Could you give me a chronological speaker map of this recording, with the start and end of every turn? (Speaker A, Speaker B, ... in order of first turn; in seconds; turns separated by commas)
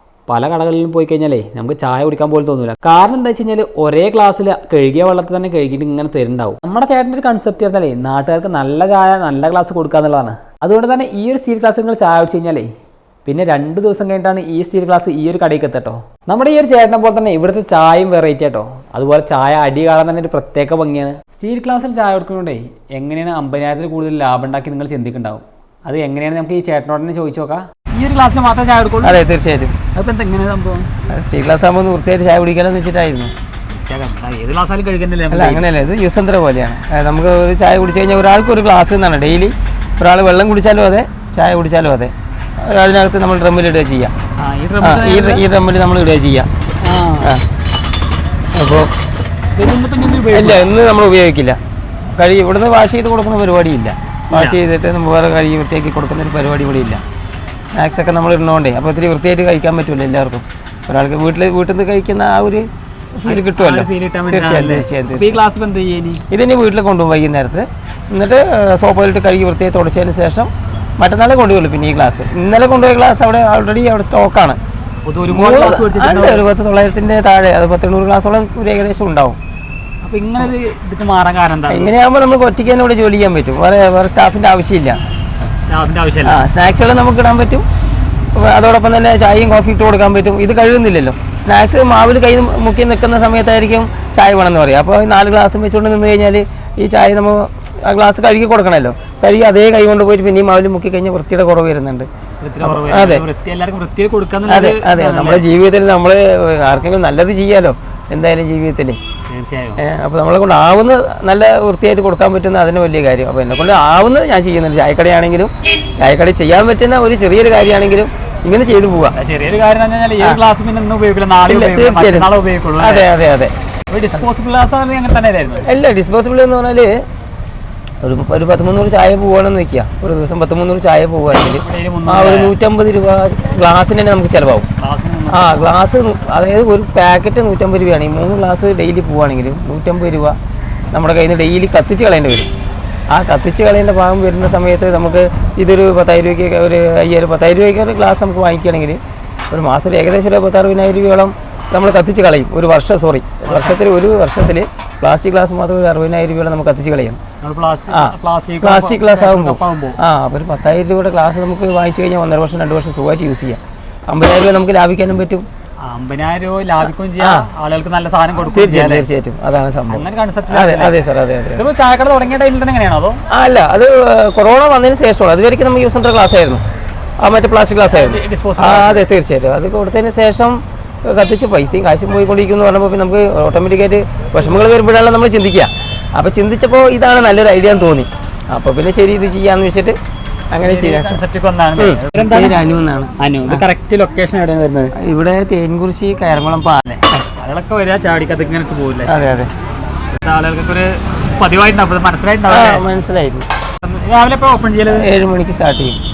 Speaker A: 0.3-12.7, Speaker A: 13.2-29.2, Speaker B: 29.0-29.7, Speaker A: 29.9-30.9, Speaker B: 31.1-33.3, Speaker A: 33.7-35.6, Speaker B: 35.3-44.1, Speaker A: 44.4-45.4, Speaker B: 44.8-46.5, Speaker A: 46.8-47.3, Speaker B: 48.5-48.9, Speaker A: 49.5-50.7, Speaker B: 50.3-51.6, Speaker B: 52.1-57.0, Speaker A: 54.3-54.6, Speaker B: 57.7-62.6, Speaker B: 63.1-65.4, Speaker A: 63.2-66.2, Speaker B: 66.3-74.6, Speaker A: 75.0-76.5, Speaker B: 75.3-79.4, Speaker A: 80.0-81.9, Speaker B: 81.7-85.0, Speaker A: 85.7-86.4, Speaker B: 86.2-87.6, Speaker B: 88.3-102.1, Speaker A: 102.4-105.4, Speaker B: 102.6-103.2, Speaker B: 104.5-109.0, Speaker A: 109.3-109.8, Speaker B: 109.8-119.1, Speaker A: 119.1-123.1, Speaker B: 121.4-123.5, Speaker A: 123.9-125.7, Speaker B: 125.7-127.0, Speaker B: 128.0-134.7, Speaker A: 131.3-132.5, Speaker A: 134.8-135.7, Speaker B: 135.3-140.3, Speaker B: 140.9-142.5, Speaker B: 143.1-157.2, Speaker A: 153.5-153.8, Speaker A: 157.4-160.0, Speaker B: 157.9-165.4, Speaker A: 165.8-169.1, Speaker B: 167.2-167.5, Speaker B: 168.4-171.7, Speaker A: 169.9-170.9, Speaker A: 171.6-173.2, Speaker B: 173.3-176.6, Speaker B: 177.2-180.5, Speaker A: 177.9-179.1, Speaker B: 181.1-189.9, Speaker B: 190.5-191.2, Speaker A: 190.6-192.6, Speaker B: 191.8-193.7, Speaker A: 193.2-194.9, Speaker B: 194.9-197.2, Speaker A: 197.4-199.2, Speaker B: 199.1-199.5, Speaker A: 200.2-202.8, Speaker B: 202.5-203.4, Speaker A: 203.8-205.1, Speaker B: 204.9-206.0